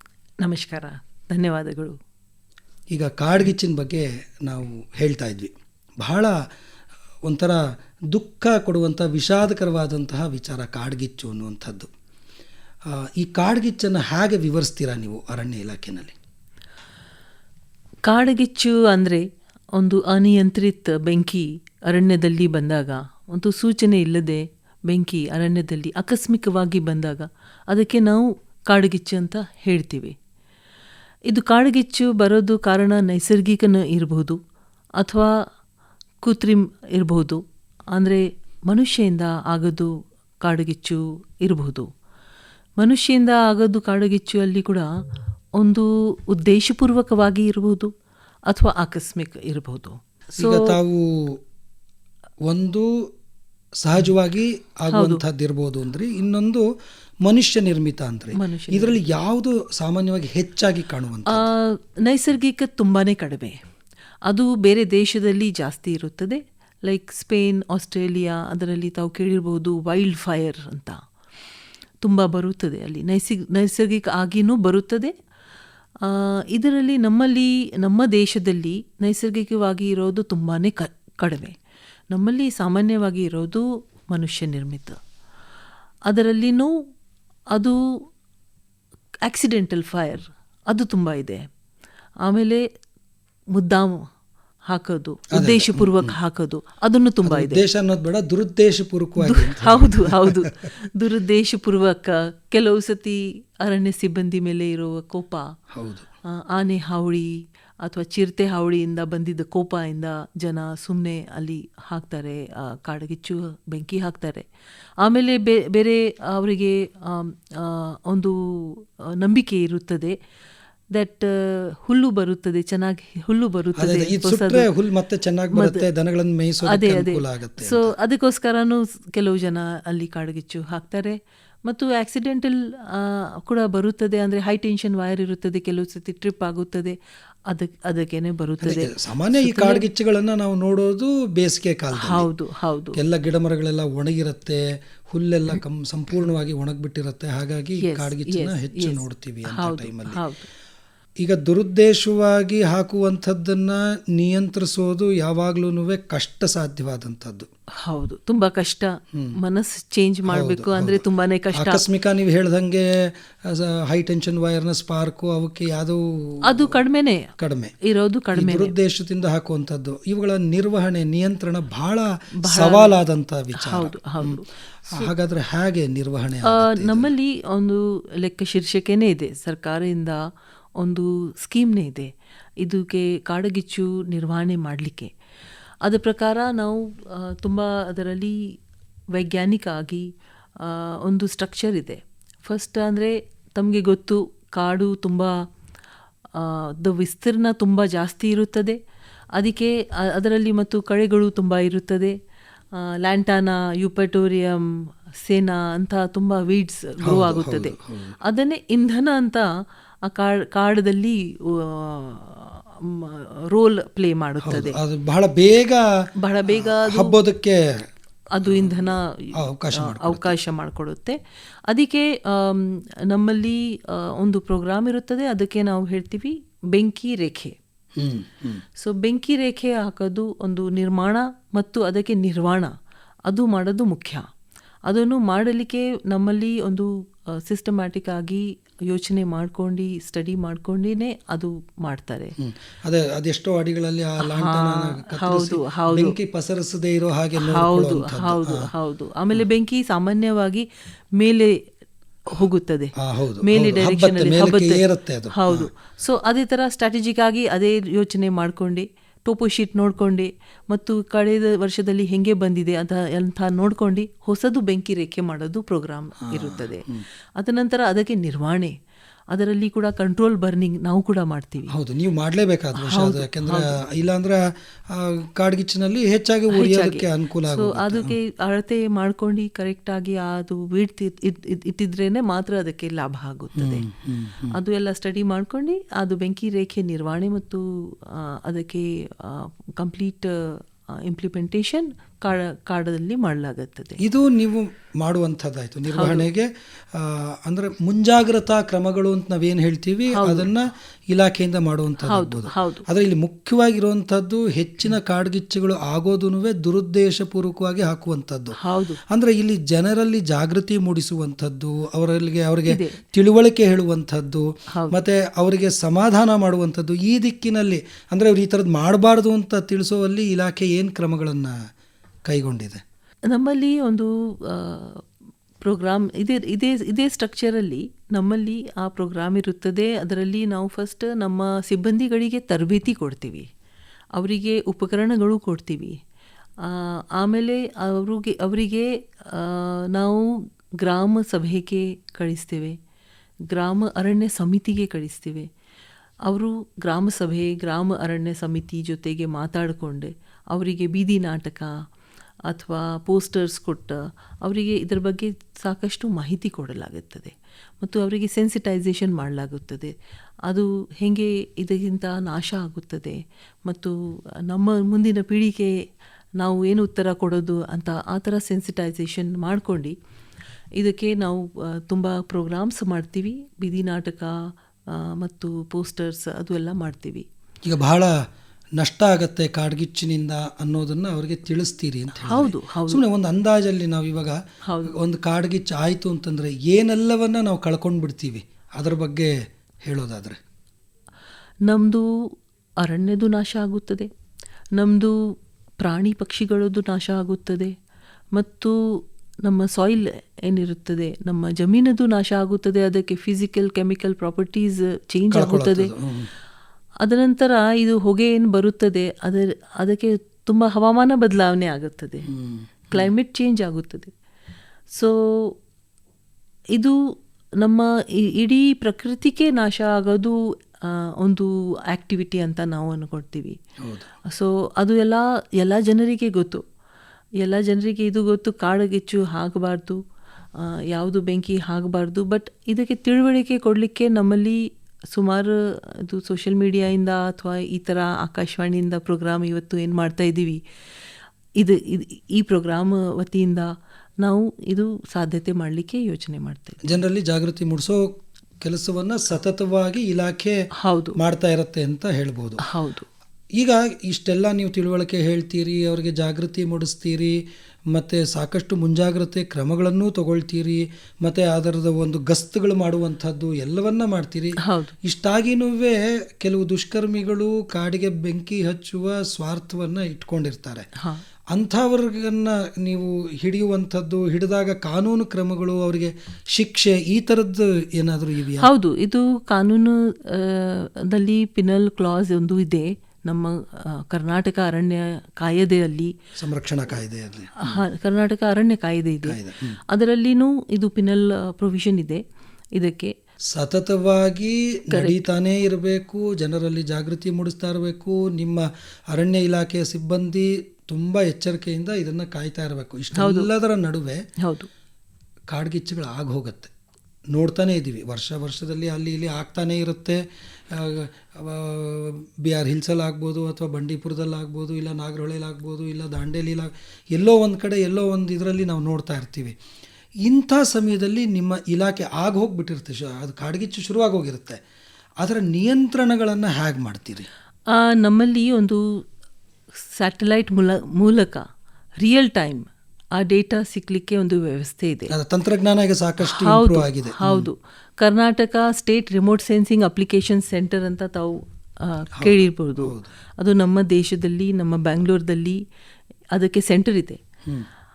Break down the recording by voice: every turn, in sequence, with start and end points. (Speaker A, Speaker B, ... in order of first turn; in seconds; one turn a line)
Speaker A: 0.4-2.0
Speaker B: 2.9-6.4
Speaker B: 7.3-7.6
Speaker B: 8.1-11.9
Speaker B: 12.9-16.1
Speaker A: 18.1-30.2
Speaker A: 31.3-34.4
Speaker A: 35.0-35.3
Speaker A: 36.2-39.9
Speaker A: 40.4-41.9
Speaker A: 42.8-44.9
Speaker A: 45.6-47.9
Speaker A: 48.5-50.8
Speaker B: 50.4-51.4
Speaker B: 52.5-52.9
Speaker B: 53.8-56.7
Speaker A: 54.9-55.2
Speaker B: 57.2-61.5
Speaker A: 58.4-59.0
Speaker A: 61.3-63.6
Speaker A: 64.3-71.0
Speaker A: 72.0-75.1
Speaker A: 76.0-81.6
Speaker A: 82.1-85.0
Speaker A: 86.1-86.8
Speaker A: 87.5-87.8
Speaker A: 89.2-91.5
Speaker A: 92.2-92.7
Speaker A: 93.5-94.1
Speaker A: 94.7-97.6
Speaker B: 95.3-96.2
Speaker B: 97.2-100.5
Speaker A: 99.2-105.5
Speaker B: 105.7-106.1
Speaker A: 106.3-114.5
Speaker A: 115.0-120.2
Speaker A: 120.9-124.7
Speaker B: 123.8-127.9
Speaker A: 125.5-125.8
Speaker A: 126.6-139.9
Speaker B: 138.6-142.3
Speaker A: 141.9-143.0
Speaker B: 143.0-150.2
Speaker A: 147.8-150.5
Speaker B: 151.2-157.5
Speaker A: 157.8-161.8
Speaker B: 160.3-161.0
Speaker B: 161.5-166.8
Speaker A: 166.5-167.3
Speaker B: 167.4-167.8
Speaker A: 167.8-168.7
Speaker B: 168.3-177.1
Speaker A: 172.4-172.9
Speaker A: 173.6-175.1
Speaker A: 176.4-180.3
Speaker A: 180.8-185.1
Speaker A: 185.8-188.5
Speaker A: 189.1-195.4
Speaker A: 196.3-198.8
Speaker A: 199.4-202.2
Speaker A: 202.7-209.5
Speaker B: 207.0-208.2
Speaker A: 210.1-214.8
Speaker B: 214.4-215.8
Speaker A: 216.2-217.2
Speaker B: 216.5-217.8
Speaker A: 218.3-227.6
Speaker B: 218.4-220.3
Speaker B: 228.0-228.6
Speaker A: 228.8-232.7
Speaker A: 233.3-234.2
Speaker A: 234.9-242.3
Speaker B: 242.4-248.7
Speaker A: 244.2-246.2
Speaker A: 247.4-251.6
Speaker A: 252.3-266.9
Speaker B: 253.0-255.7
Speaker B: 266.3-267.1
Speaker A: 267.4-268.8
Speaker A: 269.3-271.7
Speaker B: 271.7-278.1
Speaker A: 272.8-273.8
Speaker A: 276.5-283.9
Speaker B: 283.6-284.6
Speaker A: 284.5-294.0
Speaker B: 294.0-308.6
Speaker A: 295.9-296.3
Speaker A: 300.1-300.5
Speaker A: 302.0-302.9
Speaker A: 308.6-309.0
Speaker B: 309.1-321.6
Speaker A: 312.7-313.0
Speaker A: 314.7-315.0
Speaker B: 322.3-322.8
Speaker A: 323.3-325.1
Speaker A: 325.6-333.5
Speaker A: 334.2-336.0
Speaker A: 336.6-342.8
Speaker A: 343.5-345.5
Speaker A: 346.3-351.8
Speaker A: 352.5-359.9
Speaker A: 360.5-365.7
Speaker A: 366.4-369.9
Speaker A: 370.8-377.3
Speaker B: 377.6-378.1
Speaker B: 378.8-389.3
Speaker A: 382.2-383.0
Speaker A: 384.7-385.0
Speaker B: 389.8-390.4
Speaker A: 391.7-394.1
Speaker A: 394.8-397.8
Speaker A: 398.3-405.9
Speaker B: 405.3-406.3
Speaker A: 407.0-412.3
Speaker B: 412.3-413.1
Speaker A: 412.9-414.1
Speaker A: 414.9-415.6
Speaker A: 416.7-417.0
Speaker A: 417.6-423.6
Speaker B: 423.8-424.1
Speaker A: 424.3-426.6
Speaker A: 427.4-430.0
Speaker A: 430.6-440.6
Speaker A: 441.6-446.9
Speaker B: 446.9-450.6
Speaker A: 450.8-451.2
Speaker B: 451.2-452.6
Speaker A: 452.6-453.1
Speaker B: 453.6-457.4
Speaker B: 457.9-470.9
Speaker A: 464.6-464.9
Speaker B: 471.5-478.7
Speaker A: 478.6-486.1
Speaker B: 486.4-487.8
Speaker A: 487.6-489.4
Speaker B: 489.3-489.8
Speaker A: 489.9-492.2
Speaker A: 492.8-493.1
Speaker B: 493.5-504.2
Speaker A: 494.9-495.2
Speaker A: 503.2-503.5
Speaker A: 504.4-504.7
Speaker B: 505.5-506.7
Speaker B: 507.3-519.6
Speaker B: 520.2-524.6
Speaker B: 525.2-527.3
Speaker A: 527.7-529.0
Speaker A: 529.8-531.5
Speaker A: 532.0-532.7
Speaker A: 533.2-535.1
Speaker B: 535.1-537.5
Speaker A: 536.2-545.6
Speaker B: 542.2-543.1
Speaker A: 546.3-547.2